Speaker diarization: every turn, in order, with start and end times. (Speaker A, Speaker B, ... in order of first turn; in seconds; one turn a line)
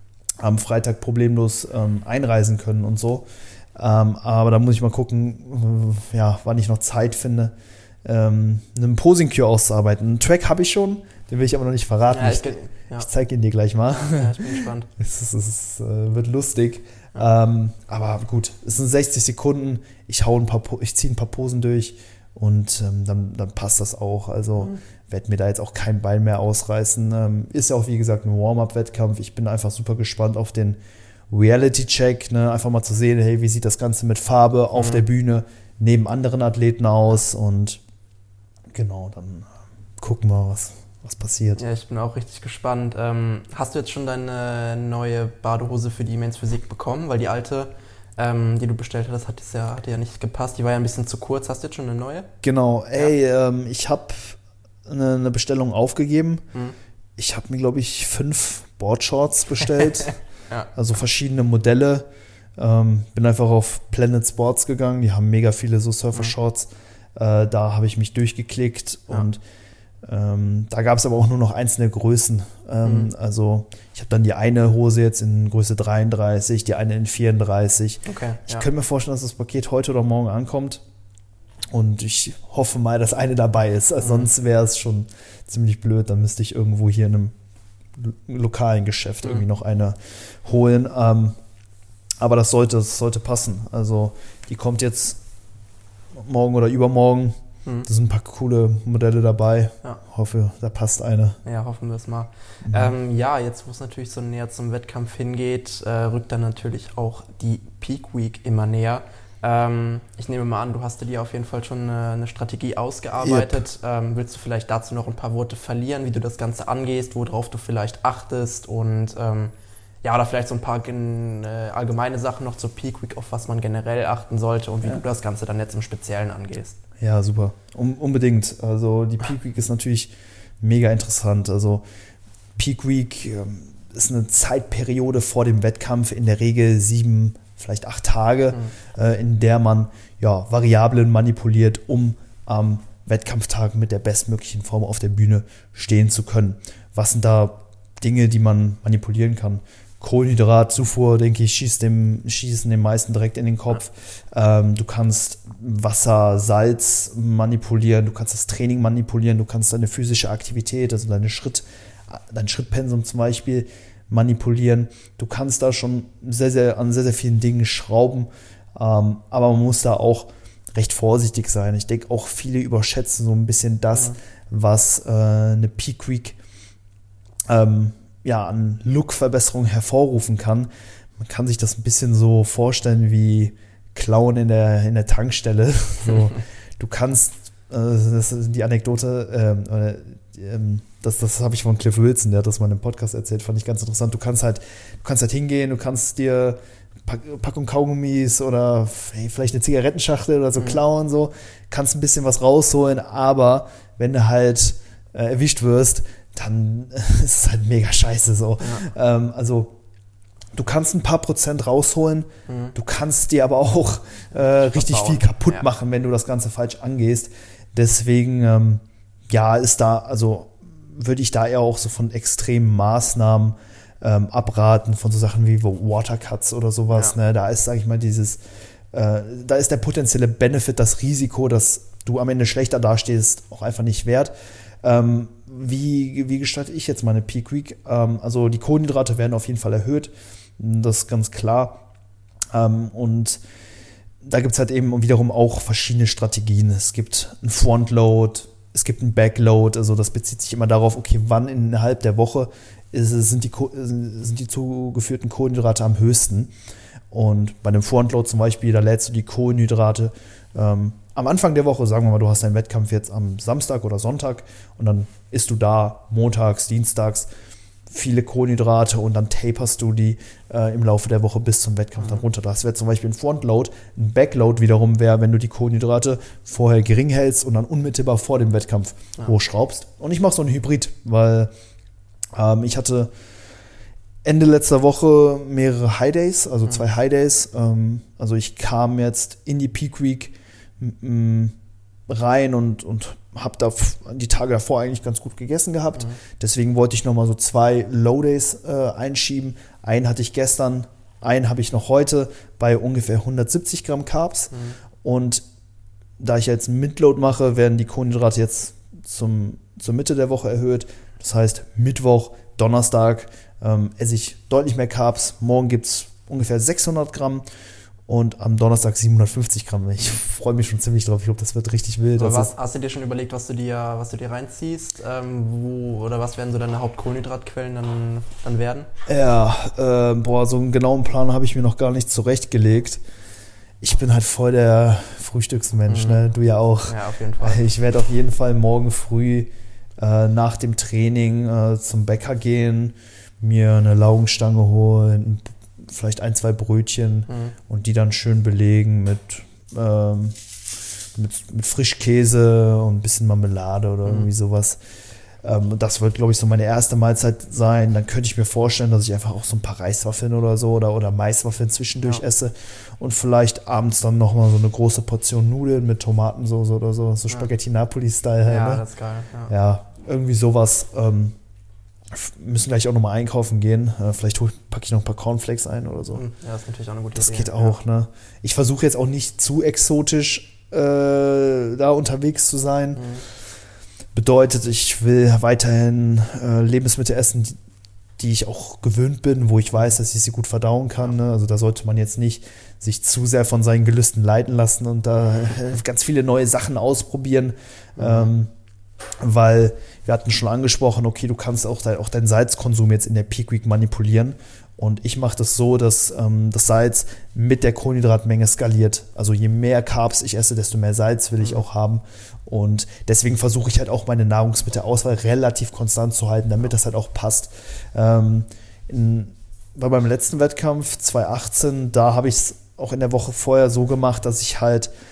Speaker A: 0.4-7.5
Speaker A: 8.0-30.8
Speaker B: 12.1-13.1
Speaker B: 13.9-14.9
Speaker A: 31.3-37.8
Speaker B: 34.7-35.0
Speaker A: 38.7-41.6
Speaker B: 41.6-52.3
Speaker A: 52.4-56.4
Speaker A: 57.2-60.1
Speaker B: 59.8-60.7
Speaker A: 60.7-62.0
Speaker A: 62.6-69.4
Speaker A: 70.0-80.8
Speaker B: 72.8-73.1
Speaker B: 78.0-78.7
Speaker A: 81.7-87.3
Speaker B: 84.0-84.3
Speaker A: 88.0-91.4
Speaker A: 92.2-95.2
Speaker A: 96.1-101.4
Speaker B: 101.4-119.5
Speaker A: 102.6-102.9
Speaker A: 113.2-113.6
Speaker B: 120.0-126.8
Speaker A: 127.0-131.8
Speaker A: 132.6-176.4
Speaker A: 177.5-209.7
Speaker B: 208.6-208.8
Speaker A: 210.5-228.4
Speaker B: 212.5-212.7
Speaker B: 214.4-215.7
Speaker A: 228.9-234.3
Speaker A: 234.8-241.8
Speaker A: 242.5-243.4
Speaker A: 244.2-256.5
Speaker A: 257.1-267.3
Speaker A: 267.9-281.5
Speaker A: 282.3-283.1
Speaker A: 284.2-291.6
Speaker A: 292.1-305.4
Speaker B: 304.5-304.8
Speaker A: 306.2-317.4
Speaker A: 318.1-322.5
Speaker B: 322.2-328.9
Speaker A: 329.1-333.0
Speaker A: 333.8-350.4
Speaker B: 335.9-336.3
Speaker B: 336.8-337.6
Speaker B: 347.3-347.6
Speaker A: 351.1-354.8
Speaker A: 355.4-368.8
Speaker B: 368.4-369.5
Speaker A: 369.5-371.4
Speaker A: 372.1-376.2
Speaker B: 376.1-377.8
Speaker A: 377.1-383.1
Speaker B: 382.9-383.2
Speaker A: 384.1-387.6
Speaker A: 388.2-398.5
Speaker B: 398.0-398.3
Speaker A: 399.2-424.9